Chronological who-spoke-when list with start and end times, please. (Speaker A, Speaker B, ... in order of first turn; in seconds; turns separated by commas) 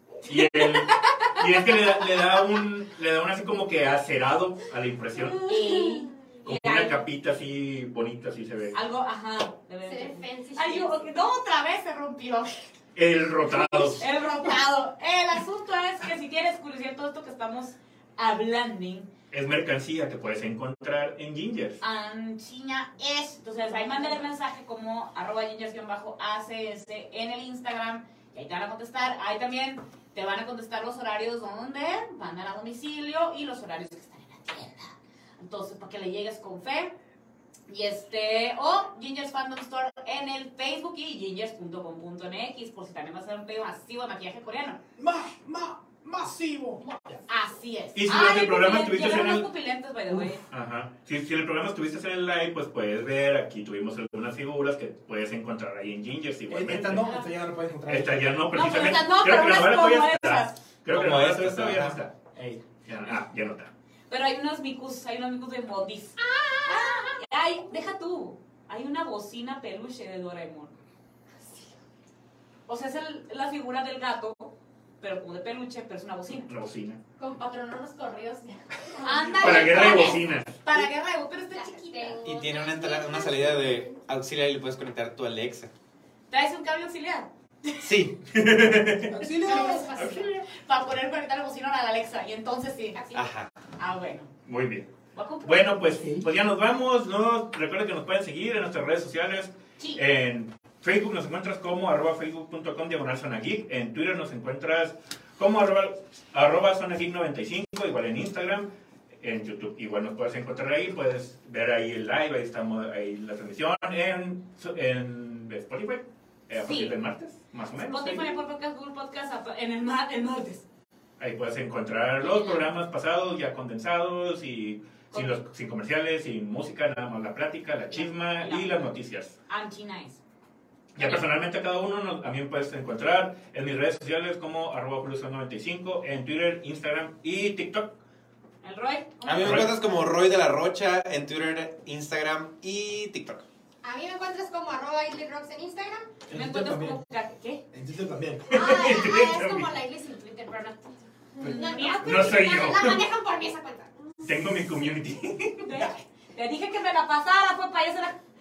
Speaker A: 0.3-5.5, Speaker B: 0.6-1.4, Speaker C: 5.4-6.1, Speaker B: 5.4-7.0, Speaker A: 6.4-8.8, Speaker B: 8.7-12.7, Speaker C: 9.8-11.0, Speaker A: 12.9-14.0, Speaker C: 13.5-14.6, Speaker B: 13.6-19.1, Speaker A: 19.3-21.8, Speaker B: 21.8-36.9, Speaker B: 37.7-44.8, Speaker D: 45.0-47.2, Speaker B: 47.3-50.4, Speaker A: 48.0-49.5, Speaker A: 50.2-57.1, Speaker D: 56.5-58.4, Speaker B: 57.0-57.3, Speaker A: 57.9-62.1, Speaker B: 58.5-60.6, Speaker E: 60.9-62.0, Speaker D: 62.3-62.6, Speaker A: 62.9-63.7, Speaker B: 64.1-70.7, Speaker C: 66.2-67.2, Speaker B: 72.7-76.5, Speaker A: 76.5-77.0, Speaker C: 77.2-80.2, Speaker B: 79.0-82.2, Speaker A: 79.3-80.9, Speaker C: 81.5-84.0, Speaker E: 82.2-85.7, Speaker B: 86.3-87.9, Speaker E: 87.8-88.2, Speaker A: 88.3-89.3, Speaker D: 89.1-89.9, Speaker C: 89.2-90.3, Speaker B: 89.5-93.3, Speaker A: 89.9-90.3, Speaker E: 93.1-93.5, Speaker B: 93.8-94.3, Speaker A: 94.5-94.9, Speaker B: 95.1-95.9, Speaker A: 95.4-118.3, Speaker D: 95.9-96.3, Speaker B: 116.6-117.0, Speaker B: 117.8-120.7, Speaker A: 121.2-129.3, Speaker B: 122.2-122.6, Speaker B: 125.1-125.4, Speaker B: 127.9-128.9, Speaker B: 129.5-130.2, Speaker A: 130.9-137.9, Speaker B: 131.0-131.3, Speaker B: 138.6-139.8, Speaker E: 139.2-143.4, Speaker A: 139.4-139.7, Speaker C: 143.8-146.1, Speaker D: 146.3-147.0, Speaker B: 146.3-147.6, Speaker D: 147.7-148.6, Speaker A: 148.5-149.7, Speaker C: 148.5-154.6, Speaker B: 151.4-152.3, Speaker A: 151.4-153.0, Speaker A: 154.2-155.9, Speaker B: 155.6-158.2